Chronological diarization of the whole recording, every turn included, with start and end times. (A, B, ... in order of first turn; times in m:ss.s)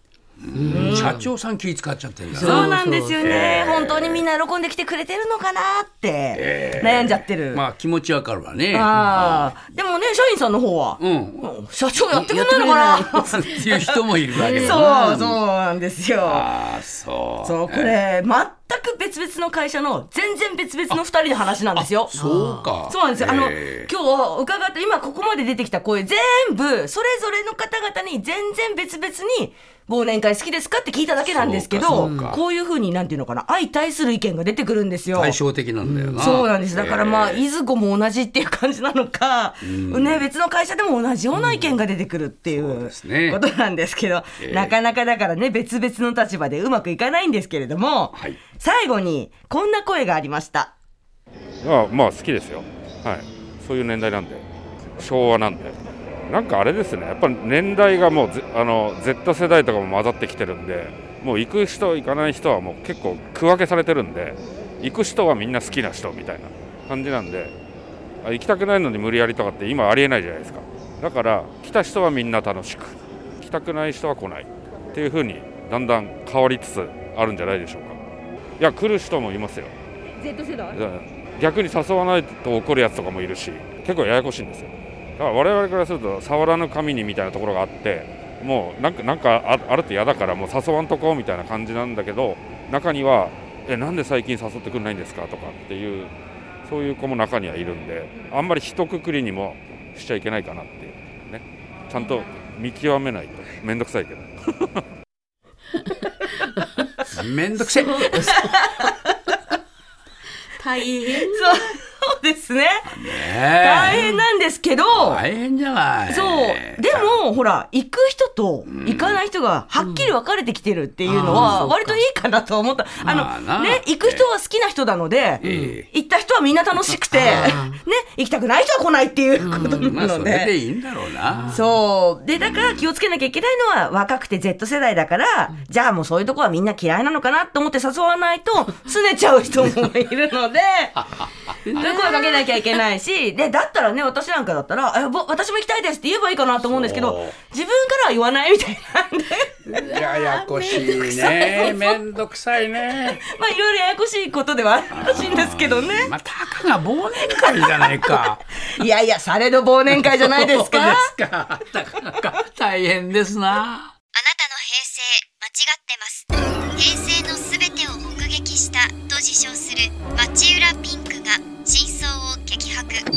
0:00.4-0:04.2 A
0:00.6-0:01.3 B
0:00.7-0:01.1 C
0:02.3-0:07.6 C
0:02.4-0:03.2 B
0:06.4-0:09.6 A
0:08.7-0:13.9 C
0:11.0-0:11.4 A
0:12.2-0:13.5 B
0:13.1-0:15.4 A
0:14.4-0:16.5 C
0:14.4-0:14.8 B
0:16.2-0:18.0 A
0:17.4-0:22.1 C
0:21.7-0:23.9 A
0:22.2-0:22.7 B
0:22.9-0:35.4 C
0:31.2-0:32.4 A
0:31.9-0:32.4 B
0:35.2-0:37.4 A
0:35.8-0:36.4 B
0:36.2-0:50.7 C
0:39.6-0:40.3 A
0:42.5-0:43.4 A
0:44.4-0:44.8 A
0:51.6-0:54.4 D
0:55.0-1:07.5 D
1:08.2-1:18.0 D
1:18.6-1:19.7 D
1:20.7-1:36.1 D
1:36.7-1:44.3 D
1:47.1-1:48.4 A
1:47.9-1:48.4 B
1:48.2-1:49.0 C
1:50.6-1:51.5 B
1:50.9-1:55.2 C
1:52.9-1:54.1 A
1:54.9-1:57.2 A
1:56.1-2:10.6 C
1:58.7-1:59.2 A
1:59.8-2:00.1 B
2:01.1-2:01.7 A
2:01.1-2:02.0 B
2:03.0-2:04.3 A
2:05.4-2:05.9 A
2:05.4-2:05.8 B
2:07.2-2:07.8 B
2:09.4-2:11.6 A
2:11.5-2:21.0 C
2:21.7-2:22.1 A
2:21.7-2:29.8 C
2:26.7-2:27.4 A
2:29.7-2:33.2 A
2:33.3-2:36.1 C
2:34.9-2:38.8 A
2:37.5-2:38.2 C
2:38.8-2:41.1 C
2:39.9-2:43.9 A
2:44.2-2:46.2 E
2:46.8-2:53.0 E